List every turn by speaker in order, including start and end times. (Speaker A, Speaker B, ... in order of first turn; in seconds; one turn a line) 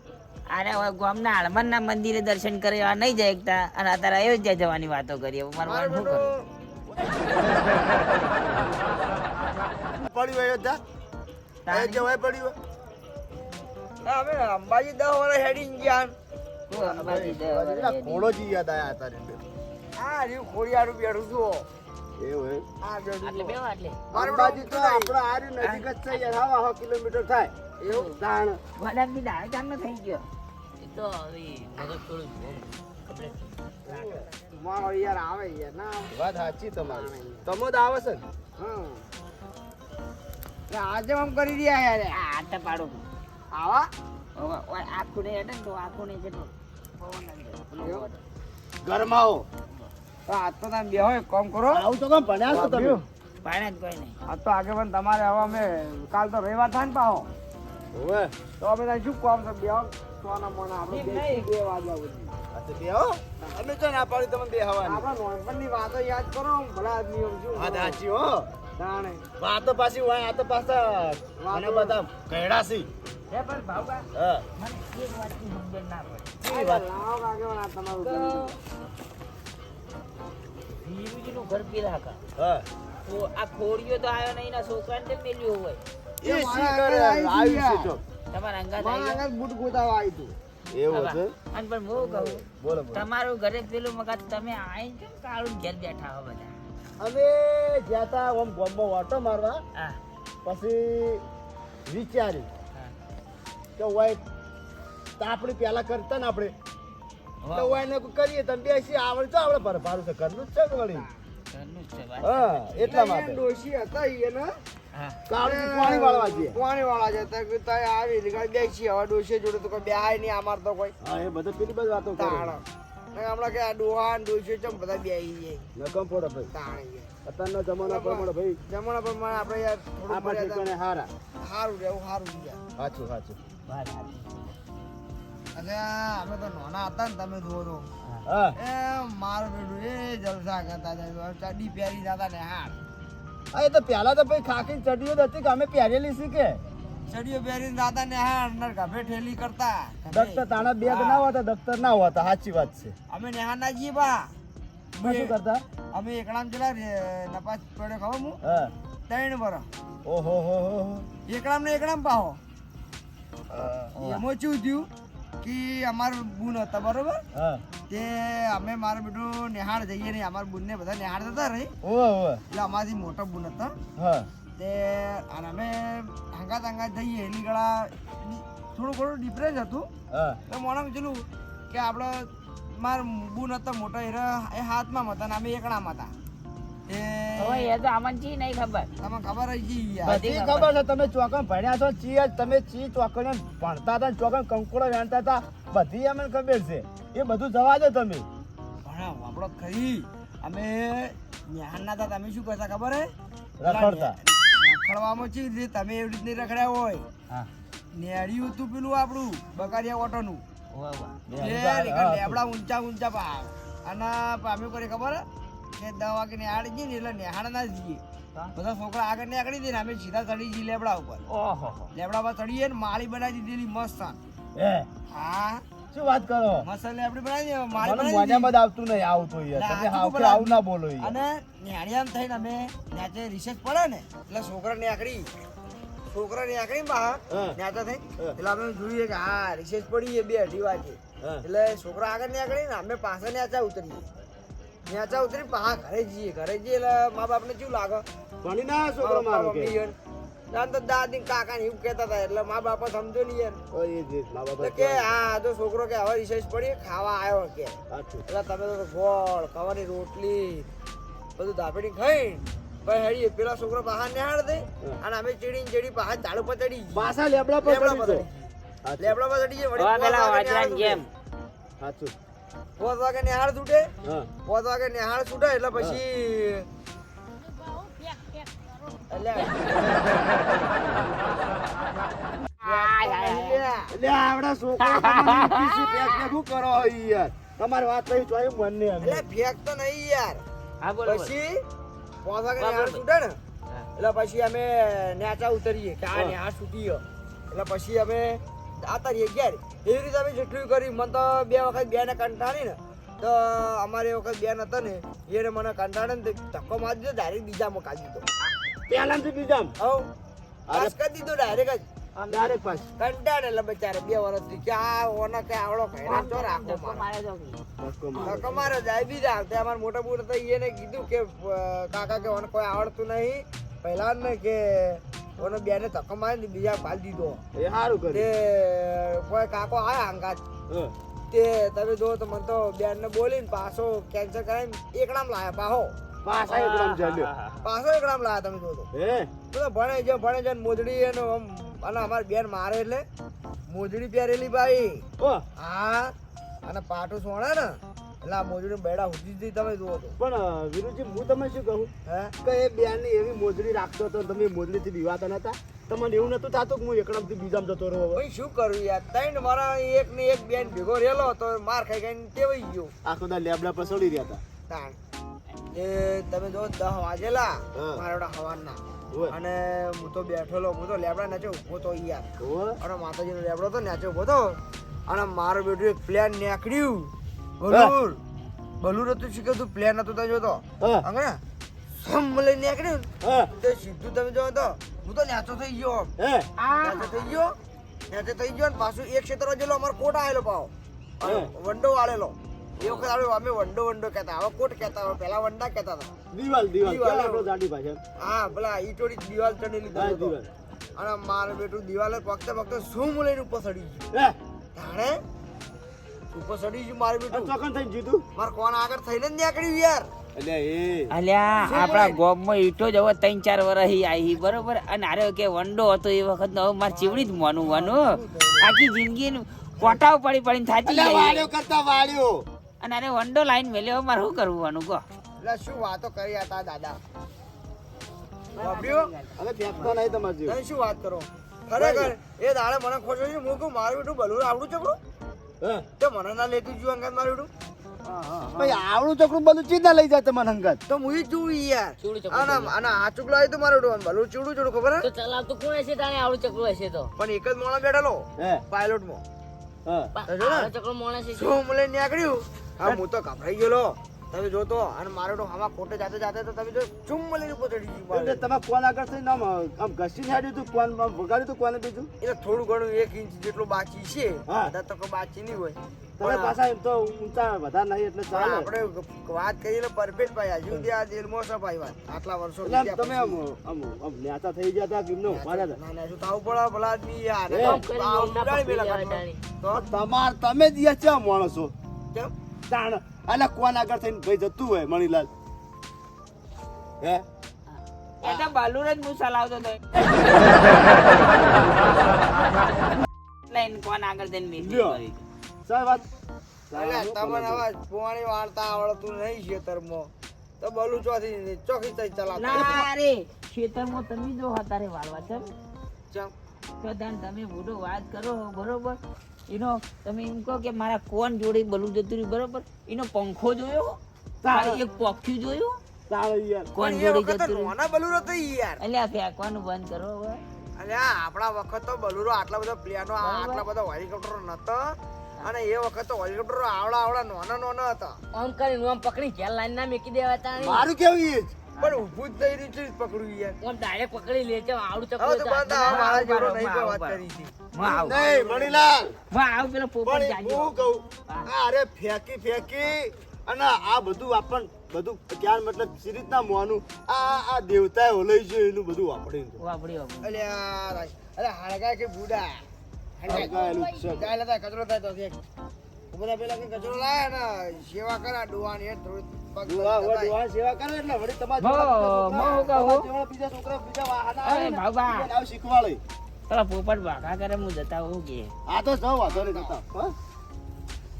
Speaker A: 0.5-6.3
Speaker B: 5.6-6.5
Speaker C: 6.9-8.6
Speaker C: 10.0-10.8
Speaker A: 11.7-12.1
Speaker C: 11.7-12.6
Speaker B: 14.0-16.1
Speaker A: 16.7-18.3
Speaker B: 16.8-17.2
Speaker C: 17.0-19.4
Speaker B: 20.0-21.7
Speaker C: 22.2-22.7
Speaker B: 22.8-23.6
Speaker D: 23.2-23.9
Speaker A: 23.4-23.9
Speaker B: 24.1-25.1
Speaker C: 24.1-27.5
Speaker A: 25.6-25.9
Speaker B: 27.8-28.2
Speaker C: 28.1-28.6
Speaker A: 28.8-30.2
Speaker D: 30.8-32.7
Speaker B: 33.9-36.1
Speaker C: 36.1-38.2
Speaker B: 36.9-37.3
Speaker B: 38.6-39.1
Speaker B: 40.7-42.1
Speaker A: 42.1-43.0
Speaker B: 43.5-43.9
Speaker A: 44.4-48.2
Speaker B: 47.8-48.1
Speaker C: 48.8-49.5
Speaker B: 50.3-51.8
Speaker C: 51.7-53.0
Speaker B: 52.5-53.0
Speaker A: 53.4-54.1
Speaker B: 54.3-57.3
Speaker C: 57.9-58.3
Speaker B: 58.6-62.3
Speaker A: 60.9-61.5
Speaker C: 62.5-65.0
Speaker B: 64.8-68.0
Speaker C: 67.5-68.5
Speaker B: 68.8-69.2
Speaker C: 69.4-72.9
Speaker B: 71.4-72.0
Speaker A: 73.3-74.0
Speaker C: 74.1-74.5
Speaker A: 74.6-76.3
Speaker C: 76.4-76.8
Speaker B: 76.5-78.5
Speaker A: 78.0-78.6
Speaker A: 80.8-82.2
Speaker C: 82.4-82.7
Speaker A: 83.0-85.8
Speaker B: 86.2-88.0
Speaker C: 86.2-88.0
Speaker A: 88.3-89.2
Speaker B: 88.8-90.3
Speaker C: 90.7-91.3
Speaker A: 90.9-96.5
Speaker C: 92.0-93.0
Speaker C: 97.0-99.6
Speaker C: 100.4-101.2
Speaker C: 101.9-102.5
Speaker C: 103.8-104.2
Speaker C: 105.2-106.5
Speaker A: 107.4-107.8
Speaker C: 107.5-111.1
Speaker A: 111.5-112.6
Speaker C: 112.2-113.4
Speaker B: 112.8-114.6
Speaker A: 114.9-115.2
Speaker C: 115.3-116.6
Speaker B: 115.4-121.0
Speaker C: 121.0-122.5
Speaker B: 122.1-125.7
Speaker C: 125.8-126.5
Speaker B: 126.5-127.1
Speaker C: 127.2-128.6
Speaker B: 127.8-130.7
Speaker C: 130.1-131.1
Speaker B: 131.4-132.6
Speaker C: 132.8-133.4
Speaker A: 133.7-134.3
Speaker B: 135.5-137.9
Speaker C: 138.2-138.6
Speaker B: 138.6-142.8
Speaker C: 143.5-146.6
Speaker B: 147.1-151.3
Speaker C: 150.1-152.9
Speaker B: 153.1-154.3
Speaker B: 154.9-155.3
Speaker C: 155.0-155.6
Speaker B: 155.9-158.4
Speaker C: 158.4-158.7
Speaker B: 159.1-159.7
Speaker C: 160.1-161.1
Speaker B: 161.3-162.4
Speaker C: 163.5-164.2
Speaker B: 163.9-164.9
Speaker B: 165.4-167.2
Speaker C: 167.3-167.6
Speaker B: 167.9-171.7
Speaker C: 171.8-172.4
Speaker B: 172.5-173.8
Speaker C: 174.0-174.3
Speaker B: 174.6-179.9
Speaker C: 180.1-180.4
Speaker B: 180.5-186.1
Speaker B: 186.9-187.7
Speaker A: 187.4-188.9
Speaker B: 189.0-190.2
Speaker C: 190.1-198.3
Speaker A: 190.1-190.7
Speaker B: 198.8-203.1
Speaker C: 203.6-204.2
Speaker B: 203.6-207.1
Speaker B: 207.9-210.4
Speaker A: 210.7-211.2
Speaker C: 211.3-212.4
Speaker B: 211.4-215.2
Speaker B: 215.8-218.0
Speaker B: 218.6-221.2
Speaker A: 221.3-221.9
Speaker B: 221.9-224.2
Speaker C: 224.6-224.9
Speaker B: 225.1-225.6
Speaker C: 225.9-226.7
Speaker B: 226.6-228.5
Speaker C: 227.8-231.2
Speaker B: 229.5-235.3
Speaker B: 236.1-244.1
Speaker C: 237.3-237.6
Speaker B: 244.8-248.1
Speaker C: 248.4-249.8
Speaker B: 249.0-249.9
Speaker B: 250.5-253.6
Speaker C: 253.7-255.1
Speaker B: 254.6-260.7
Speaker C: 257.9-258.2
Speaker B: 261.4-271.0
Speaker C: 266.9-268.2
Speaker C: 268.8-269.1
Speaker A: 269.8-271.1
Speaker C: 271.8-272.1
Speaker B: 272.8-273.9
Speaker C: 274.0-274.3
Speaker B: 274.4-276.7
Speaker B: 279.1-280.7
Speaker A: 282.6-283.6
Speaker B: 282.6-283.9
Speaker C: 283.9-289.2
Speaker A: 284.8-285.9
Speaker B: 289.0-290.4
Speaker A: 290.8-291.3
Speaker B: 291.0-291.6
Speaker B: 292.2-293.4
Speaker A: 292.6-293.0
Speaker B: 294.0-308.2
Speaker C: 308.9-309.8
Speaker B: 309.8-310.1
Speaker C: 310.7-310.9
Speaker B: 310.7-311.9
Speaker A: 312.1-312.6
Speaker C: 312.3-312.9
Speaker B: 313.0-317.0
Speaker A: 316.0-317.6
Speaker C: 317.8-318.7
Speaker B: 318.2-327.4
Speaker C: 327.5-328.3
Speaker B: 328.1-330.4
Speaker C: 330.7-330.9
Speaker B: 331.3-335.9
Speaker C: 336.2-337.3
Speaker A: 336.5-337.6
Speaker B: 337.6-338.9
Speaker C: 338.9-339.3
Speaker B: 339.5-343.1
Speaker B: 343.7-345.1
Speaker C: 345.2-345.4
Speaker B: 345.6-350.2
Speaker C: 350.2-351.9
Speaker B: 352.1-352.3
Speaker C: 352.4-358.2
Speaker B: 358.1-362.9
Speaker C: 363.0-364.4
Speaker B: 364.7-365.0
Speaker B: 365.7-378.2
Speaker C: 367.7-368.0
Speaker C: 372.4-372.8
Speaker B: 378.8-381.4
Speaker B: 382.0-386.1
Speaker C: 383.2-383.5
Speaker C: 386.2-386.5
Speaker A: 386.6-387.3
Speaker B: 386.8-387.5
Speaker B: 388.1-396.1
Speaker C: 391.2-391.5
Speaker C: 396.3-398.0
Speaker B: 396.8-397.5
Speaker B: 398.2-400.4
Speaker C: 399.9-400.5
Speaker B: 400.9-404.1
Speaker C: 404.1-404.4
Speaker B: 404.8-405.2
Speaker B: 406.3-407.5
Speaker C: 407.3-408.2
Speaker B: 408.3-410.1
Speaker C: 410.3-411.1
Speaker A: 411.1-421.5
Speaker B: 411.6-412.2
Speaker B: 416.9-418.8
Speaker C: 420.8-422.5
Speaker A: 422.8-425.0
Speaker B: 425.4-427.0
Speaker B: 428.6-429.1
Speaker A: 428.6-429.0
Speaker D: 428.7-429.1
Speaker C: 429.4-430.6
Speaker B: 430.4-435.0
Speaker C: 431.8-432.1
Speaker C: 435.6-435.9
Speaker B: 436.0-437.5
Speaker B: 438.0-438.8
Speaker C: 438.6-440.8
Speaker B: 440.9-445.1
Speaker D: 442.0-442.7
Speaker D: 445.0-447.1
Speaker B: 447.2-449.2
Speaker C: 448.4-448.6
Speaker C: 449.9-450.1
Speaker D: 450.1-451.6
Speaker B: 450.2-450.7
Speaker B: 451.3-458.4
Speaker C: 458.1-462.1
Speaker B: 462.2-466.6
Speaker C: 466.2-468.7
Speaker B: 468.3-473.4
Speaker C: 472.6-475.8
Speaker B: 475.3-479.9
Speaker C: 477.5-477.8
Speaker D: 477.6-479.4
Speaker C: 479.9-481.7
Speaker C: 482.7-485.3
Speaker A: 488.2-489.8
Speaker C: 488.2-488.5
Speaker C: 490.2-491.9
Speaker A: 493.5-495.2
Speaker C: 494.6-495.0
Speaker C: 495.6-496.1
Speaker C: 496.7-497.6
Speaker B: 496.7-500.1
Speaker B: 500.6-502.9
Speaker A: 502.4-505.5
Speaker A: 506.8-514.0
Speaker C: 514.4-514.8
Speaker A: 514.5-515.8
Speaker C: 516.1-516.7
Speaker A: 516.7-517.7
Speaker B: 516.8-518.8
Speaker A: 518.8-520.4
Speaker B: 520.8-528.2
Speaker A: 523.2-523.6
Speaker D: 528.3-530.9
Speaker C: 530.5-531.5
Speaker B: 531.8-533.6
Speaker D: 533.6-536.1
Speaker B: 535.2-537.5
Speaker A: 535.9-538.2
Speaker D: 537.8-539.1
Speaker C: 538.0-539.1
Speaker A: 539.3-540.7
Speaker C: 540.0-549.6
Speaker A: 549.6-550.3
Speaker B: 550.2-552.6
Speaker B: 553.2-555.4
Speaker C: 553.3-554.3
Speaker B: 556.1-560.4
Speaker C: 559.6-566.0
Speaker A: 561.6-563.1
Speaker A: 564.4-565.3
Speaker A: 566.5-568.5
Speaker C: 568.7-570.1
Speaker B: 569.2-569.8